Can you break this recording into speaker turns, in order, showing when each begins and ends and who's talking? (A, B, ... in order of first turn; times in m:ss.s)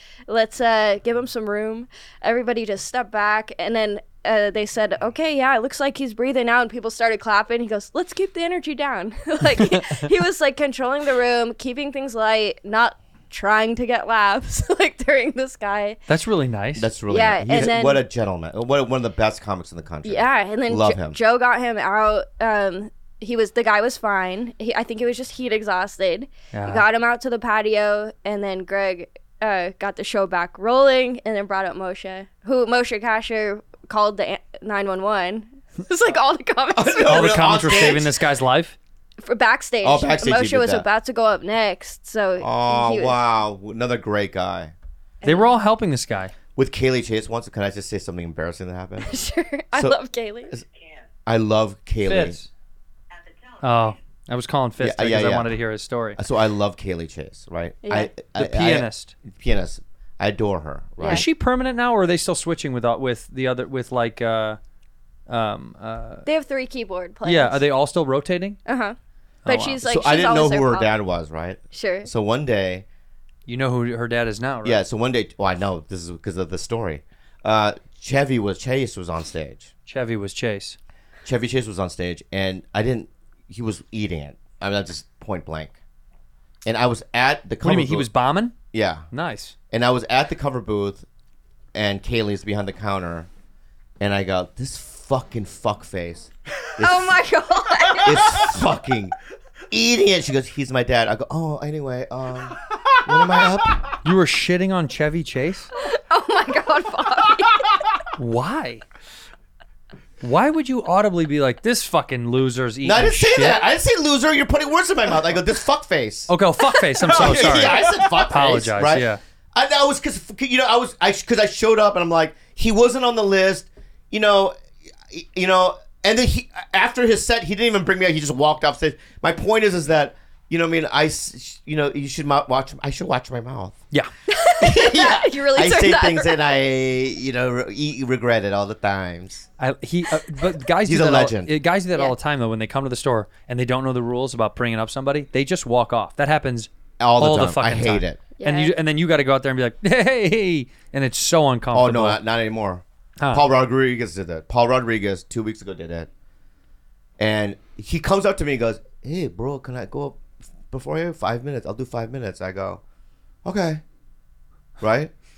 0:00.3-0:16.0 A
0:09.6-0:10.0 B
0:16.1-0:16.9 B
0:16.8-0:21.2 C
0:17.1-0:18.0 A
0:20.0-0:37.3 A
0:26.5-0:26.8 B
0:36.7-0:38.2 C
0:37.1-0:38.8 B
0:39.2-0:43.2 A
0:39.8-0:40.9 C
0:42.4-0:44.7 C
0:45.2-0:45.5 A
0:45.2-0:46.3 B
0:46.6-0:49.1 C
0:49.0-0:50.5 A
0:49.7-0:50.7 C
0:51.3-0:52.4 C
0:52.0-0:52.5 B
0:53.6-0:56.2 B
0:54.8-0:55.5 C
0:56.2-1:01.3 C
0:57.8-0:58.1 A
0:58.4-0:59.2 B
1:01.0-1:04.6 B
1:05.3-1:06.2 B
1:06.3-1:07.6 A
1:07.2-1:08.6 B
1:08.7-1:10.9 A
1:09.4-1:09.8 B
1:09.8-1:12.8 C
1:11.7-1:12.1 A
1:13.5-1:14.8 B
1:14.6-1:19.7 C
1:19.9-1:20.8 B
1:21.3-1:25.8 C
1:26.6-1:28.1 C
1:27.6-1:28.6 B
1:28.7-1:29.1 C
1:29.1-1:29.5 B
1:29.7-1:31.1 C
1:31.7-1:33.3 C
1:34.0-1:37.2 C
1:36.8-1:38.5 A
1:38.0-1:39.1 C
1:39.7-1:43.9 C
1:44.0-1:45.7 B
1:45.8-1:47.7 A
1:48.2-1:48.8 B
1:50.2-1:53.6 B
1:52.8-1:56.3 C
1:56.3-1:59.2 B
1:57.0-2:04.6 C
2:05.1-2:13.8 C
2:14.3-2:16.4 A
2:14.6-2:19.5 C
2:19.6-2:32.2 B
2:20.8-2:21.5 C
2:27.0-2:28.2 C
2:28.4-2:28.7 A
2:31.7-2:36.1 C
2:33.2-2:33.5 B
2:37.2-2:42.8 C
2:43.4-2:43.8 C
2:44.8-2:45.1 C